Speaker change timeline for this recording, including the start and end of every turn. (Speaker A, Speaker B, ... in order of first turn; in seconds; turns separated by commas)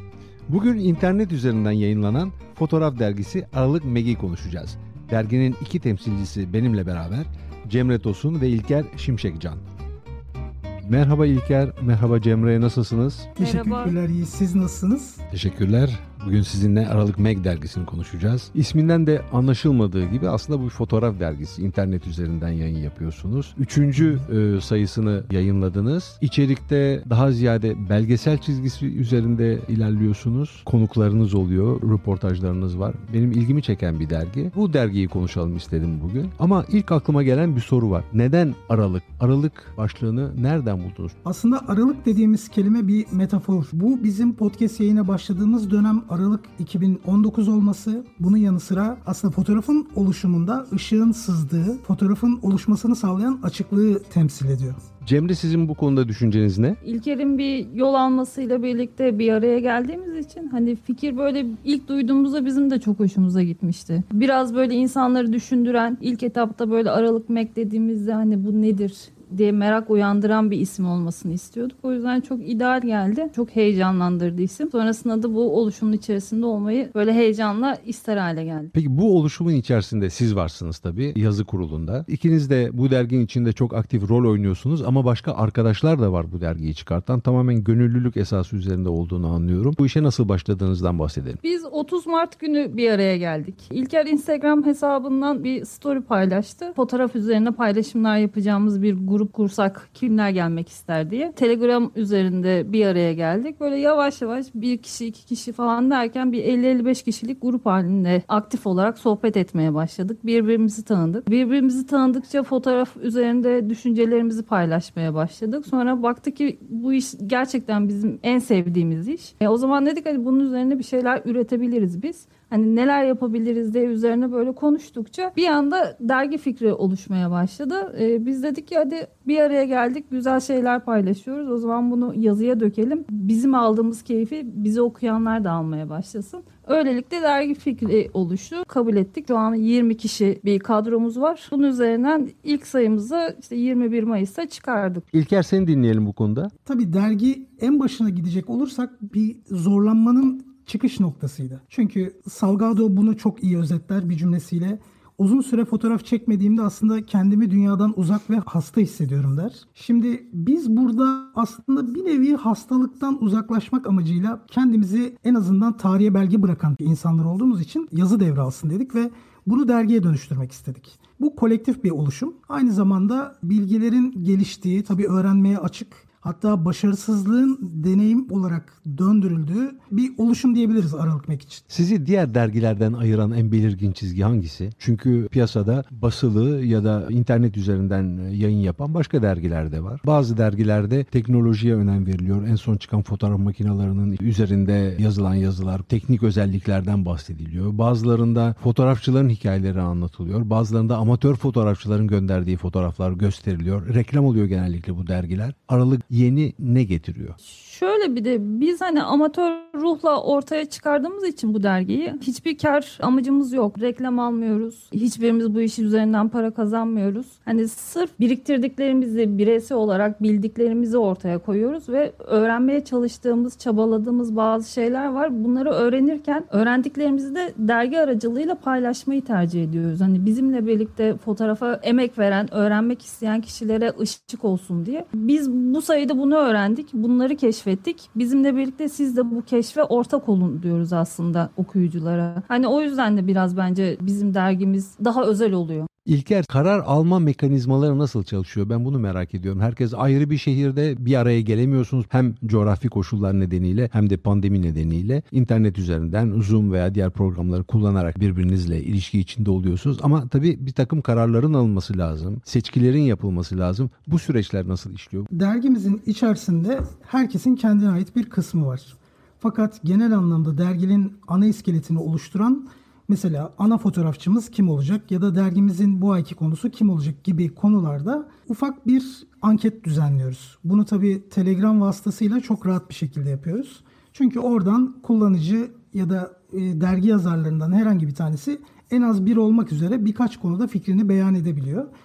Speaker A: 0.5-9.6, Speaker A: 10.8-13.3, Speaker B: 13.4-13.9, Speaker C: 13.4-15.2, Speaker A: 15.3-41.1, Speaker C: 41.2-54.8, Speaker A: 55.0-56.8, Speaker B: 56.8-78.7, Speaker A: 78.7-91.4, Speaker B: 91.4-145.1, Speaker A: 145.1-146.5, Speaker C: 146.6-181.6, Speaker A: 181.7-207.3, Speaker B: 207.4-245.9, Speaker A: 246.1-265.3, Speaker C: 265.3-291.9